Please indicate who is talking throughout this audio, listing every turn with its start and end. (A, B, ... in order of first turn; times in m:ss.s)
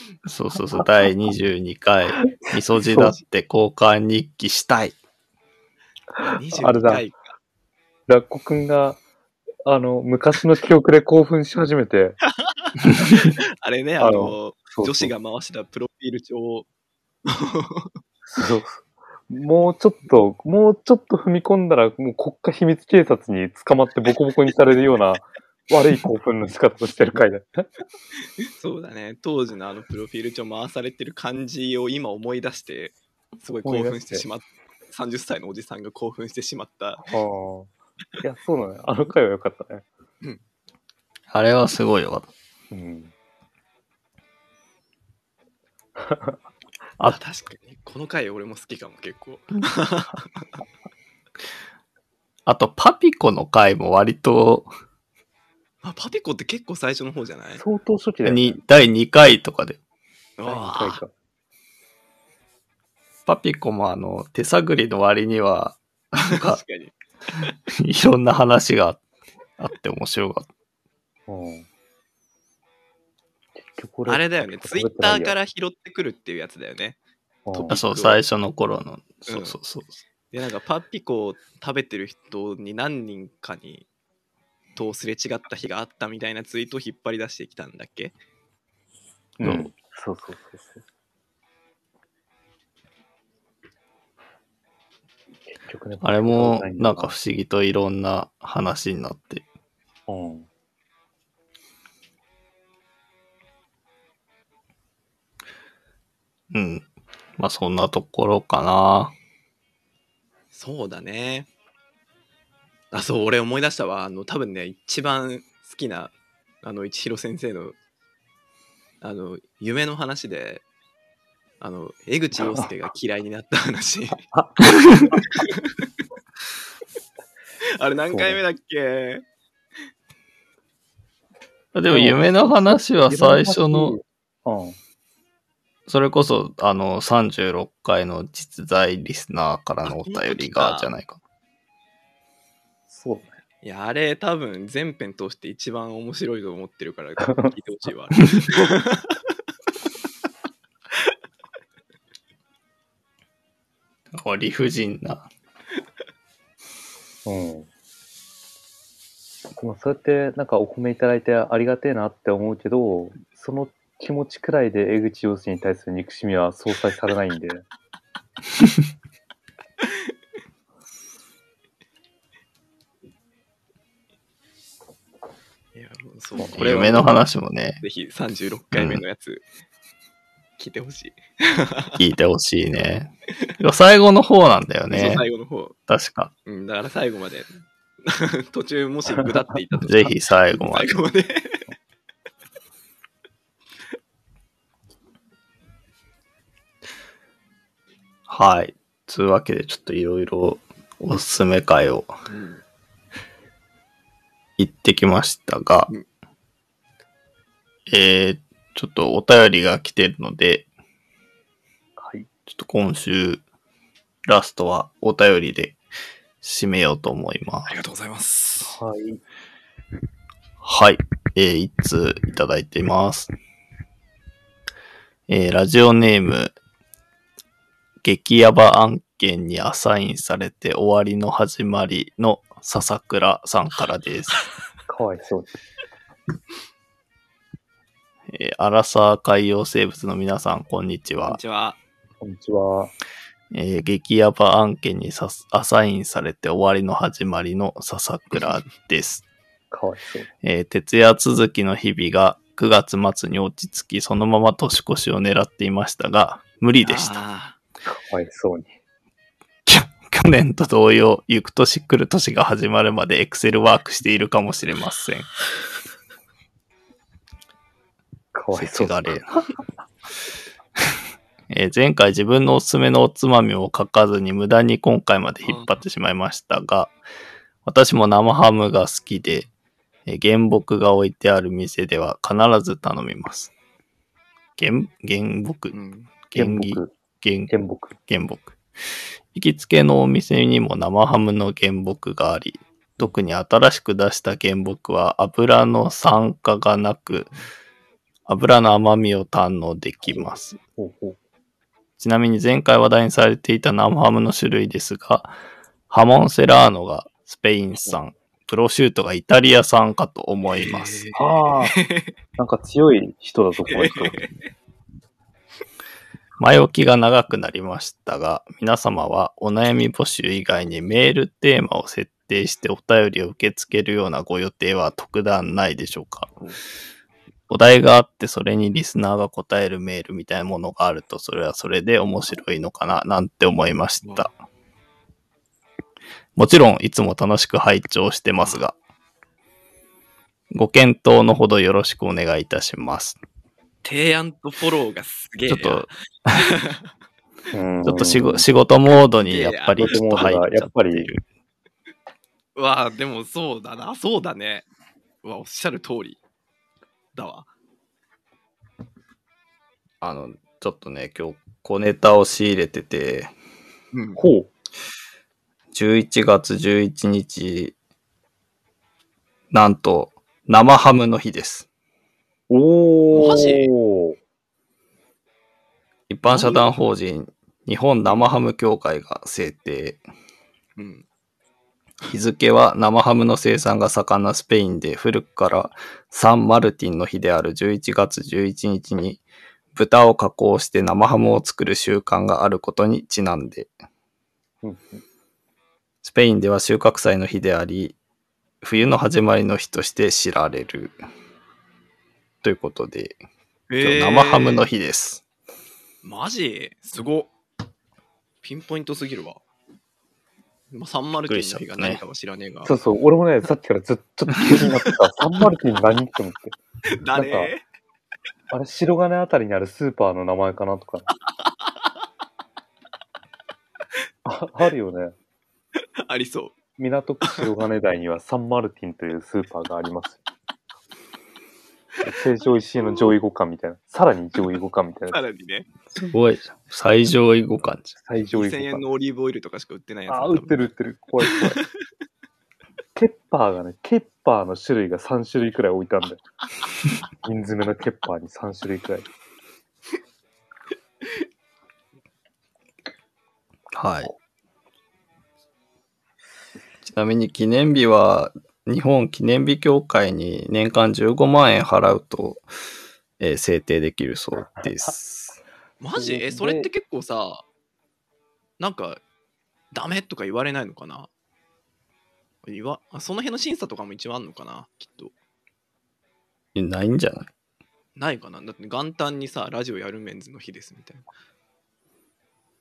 0:00.2-0:05.0 A
0:00.8-0:01.1 B
0:02.2-0:03.1 B
0:06.2-0:07.0 B
0:06.2-0:07.3 C
0:08.1-0:09.0 B
0:09.7-0:12.2 B
0:12.4-0:16.7 C
0:14.0-0:15.1 B
0:17.3-0:17.9 C
0:18.3-0:27.7 B
0:28.6-0:37.1 C
0:33.5-0:34.2 B
0:37.0-0:39.9 B
0:41.3-0:42.3 A
0:42.7-0:43.1 B
0:46.0-0:46.4 B
0:47.0-0:50.5 C
0:52.5-0:54.7 A
0:55.8-0:57.6 C
0:57.6-0:58.6 B
0:58.2-0:59.8 A
1:00.4-1:01.0 C
1:00.5-1:01.1 B
1:03.3-1:06.6 A
1:06.4-1:07.5 C
1:07.8-1:09.0 A
1:09.6-1:10.5 A
1:11.3-1:11.7 B
1:13.6-1:15.4 B
1:14.1-1:17.0 C
1:17.5-1:17.8 B
1:17.5-1:18.2 C
1:17.7-1:20.0 A
1:19.3-1:19.6 C
1:20.3-1:23.9 C
1:24.8-1:28.2 C
1:29.4-1:30.8 B
1:29.4-1:29.7 A
1:35.5-1:37.1 B
1:36.0-1:39.4 A
1:40.1-1:40.5 B
1:46.5-1:46.9 A
1:47.4-1:49.2 A
1:50.5-1:51.5 C
1:52.9-1:57.8 C
1:59.0-2:00.6 C
2:01.6-2:04.3 C
2:04.3-2:05.2 B
2:05.3-2:05.8 C
2:07.8-2:09.2 C
2:08.1-2:08.4 B
2:11.7-2:14.0 A
2:11.9-2:14.8 B
2:15.9-2:21.2 A
2:19.8-2:20.9 C
2:22.9-2:23.4 B
2:23.6-2:29.2 C
2:27.2-2:27.5 B
2:34.1-2:35.3 A
2:37.2-2:37.7 B
2:39.6-2:47.6 B
2:55.8-2:57.2 C
2:56.6-2:57.8 A
2:57.8-2:59.4 C
2:58.7-2:59.0 A
3:00.6-3:02.0 C
3:02.0-3:05.2 A
3:04.9-3:05.8 C
3:05.9-3:06.3 A
3:06.5-3:07.5 C
3:08.0-3:10.1 C
3:09.8-3:11.0 A
3:10.7-3:11.7 C
3:18.3-3:22.1 A
3:22.3-3:22.6 C
3:24.6-3:25.9 A
3:27.9-3:30.7 A
3:32.0-3:32.3 B
3:32.5-3:33.4 A
3:34.3-3:35.8 A
3:36.4-3:37.7 A
3:37.7-3:38.8 C
3:38.6-3:39.2 B
3:40.6-3:43.3 A
3:45.3-3:46.6 A
3:48.0-3:54.5 A
3:54.9-3:55.6 B
3:58.3-4:01.4 A
4:01.3-4:01.8 C
4:02.2-4:02.9 B
4:03.5-4:09.2 A
4:09.7-4:10.3 B
4:10.4-4:17.2 A
4:16.8-4:17.6 C
4:17.9-4:18.7 B
4:19.7-4:25.3 A
4:28.3-4:29.2 B
4:28.5-4:29.4 A
4:31.5-4:37.0 A
4:35.4-4:35.7 C
4:37.6-4:39.5 A
4:40.1-4:43.5 A
4:44.6-4:45.8 A
4:45.7-4:46.1 C
4:46.3-4:47.5 A
4:46.4-4:46.9 B
4:47.5-4:48.0 B
4:48.1-4:48.6 A
4:49.3-4:57.3 A
4:58.3-5:00.6 A
5:00.0-5:01.2 B
5:02.0-5:05.3 A
5:05.9-5:11.0 A
5:10.5-5:12.2 C
5:11.2-5:11.8 B
5:12.4-5:14.3 B
5:13.7-5:14.5 C
5:16.4-5:26.3 A
5:27.5-5:34.3 A
5:34.0-5:34.3 C
5:36.4-5:38.8 A
5:40.5-5:43.2 A
5:43.8-5:46.9 C
5:45.5-5:46.3 A
5:47.5-5:48.5 B
5:47.8-5:51.2 A
5:49.2-5:50.1 C
5:49.8-5:51.1 B
5:52.6-5:54.7 C
5:55.2-5:56.2 C
5:57.2-5:57.5 C
6:00.0-6:03.3 A
6:03.9-6:04.2 C
6:04.2-6:04.5 B
6:05.7-6:07.8 A
6:09.5-6:11.7 A
6:12.5-6:14.2 B
6:13.1-6:13.7 C
6:16.1-6:20.0 A
6:16.3-6:16.7 C
6:18.0-6:18.3 C
6:20.8-6:21.1 C
6:22.1-6:33.7 A
6:34.6-6:35.0 B
6:36.0-6:38.0 A
6:38.6-6:41.0 A
6:42.4-6:43.2 A
6:43.7-6:44.7 C
6:43.8-6:45.2 A
6:46.0-6:47.3 C
6:48.4-6:49.4 C
6:50.7-6:52.7 C
6:51.3-6:52.0 A
6:52.6-6:56.6 B
6:56.9-6:57.6 C
6:57.1-6:57.5 B
6:58.5-7:01.1 B
7:04.3-7:05.2 B
7:06.1-7:06.6 C
7:06.8-7:10.2 B
7:12.0-7:15.2 B
7:12.8-7:13.1 C
7:15.1-7:15.7 C
7:16.0-7:18.0 A
7:18.0-7:18.8 B
7:18.3-7:20.7 C
7:20.1-7:21.6 B
7:23.0-7:26.2 B
7:27.2-7:29.1 B
7:33.7-7:34.1 A
7:36.8-7:42.4 A
7:43.2-7:45.4 A
7:45.8-7:47.4 C
7:46.0-7:46.7 B
7:48.6-7:49.0 C
7:49.7-7:51.1 C
7:52.4-7:55.1 C
7:56.6-7:57.3 A
7:58.0-8:01.0 C